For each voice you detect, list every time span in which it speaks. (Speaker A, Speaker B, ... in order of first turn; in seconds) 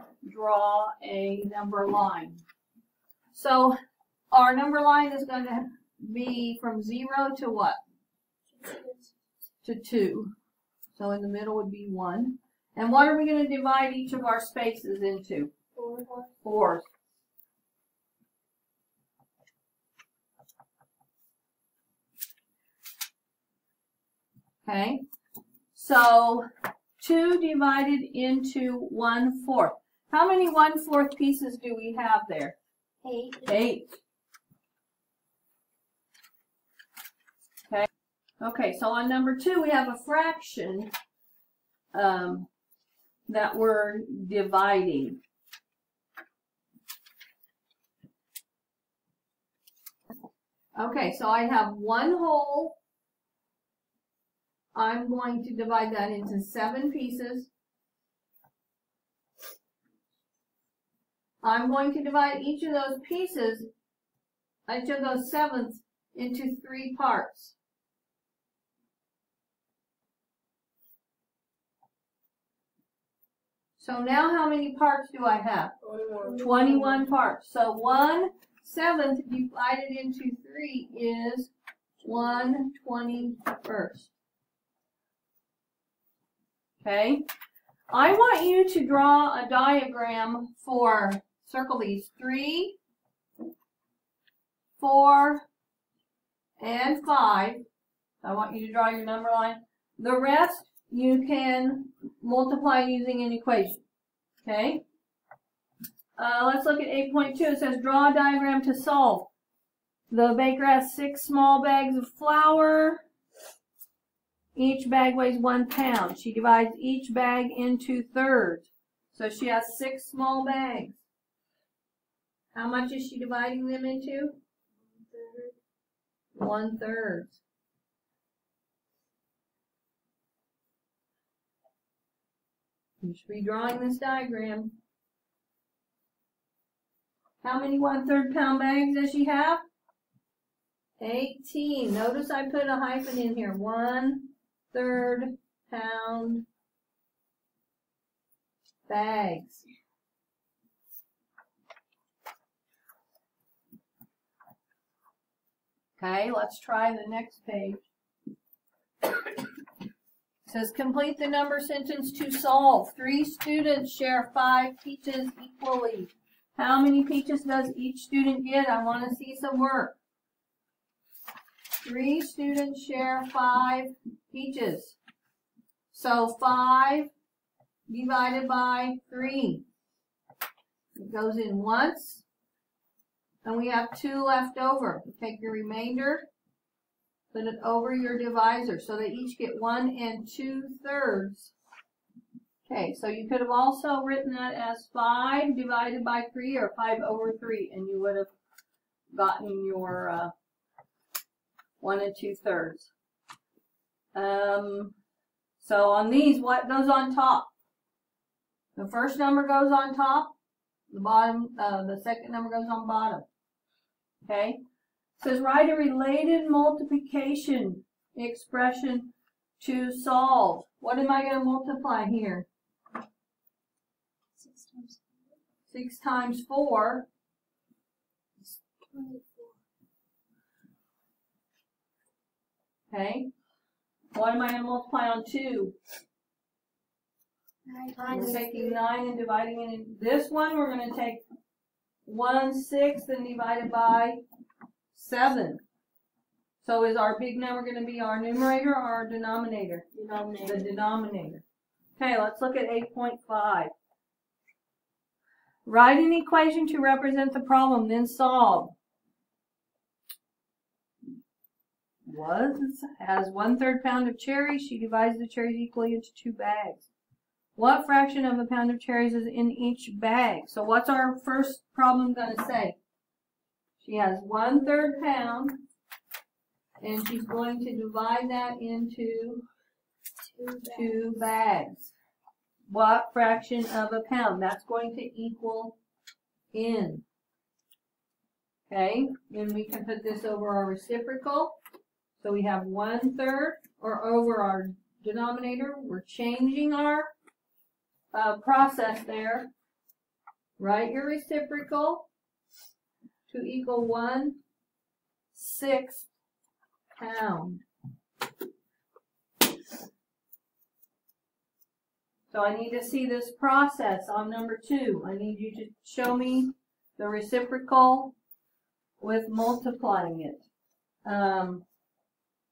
Speaker A: 0.2-2.4, 3.3-3.8, 4.3-7.8, 9.6-10.3, 10.9-15.5, 16.4-16.9, 24.6-25.0, 25.7-26.4, 27.0-32.5, 33.4-34.0, 38.4-40.9, 41.9-42.5, 43.3-45.2, 50.8-52.8, 54.7-57.5, 61.4-63.7, 64.7-67.5, 73.8-75.7, 76.3-81.5, 82.0-84.1, 86.8-87.2, 87.9-92.8, 94.8-95.4, 96.6-97.6, 98.2-103.8, 104.4-104.8, 106.2-109.3, 110.1-113.0, 114.5-121.0, 122.5-124.4, 126.3-127.4, 133.0-134.8, 137.4-139.6, 141.0-146.4, 148.9-149.6, 156.0-157.8, 160.5-170.0, 171.8-175.0, 175.9-177.1, 177.9-179.6, 180.9-182.2, 183.4-186.3, 187.3-191.5, 192.7-198.3, 199.1-200.3, 201.8-202.9, 204.1-204.9, 205.6-207.5, 208.8-210.3, 210.9-213.2, 214.2-214.6, 215.2-222.5, 225.7-227.1, 232.9-233.3, 234.1-235.8, 238.1-241.2, 242.0-244.2, 244.9-245.6, 246.6-249.8, 250.4-251.4, 252.0-253.7, 255.6-258.8, 262.1-266.9, 267.6-272.8, 273.8-275.6, 276.8-279.4, 280.7-281.9, 282.7-285.8, 286.5-287.0, 288.7-291.6, 292.2-297.1, 298.1-299.5, 300.6-302.1, 303.3-304.4, 305.3-306.1, 306.9-307.6, 312.3-318.1, 319.0-320.4, 321.0-321.6
Speaker B: 8.6-9.1, 15.8-16.3, 33.0-33.4, 75.9-77.0, 125.0-125.5, 224.4-225.0, 228.5-229.5, 237.7-238.8, 249.9-250.7, 280.2-281.0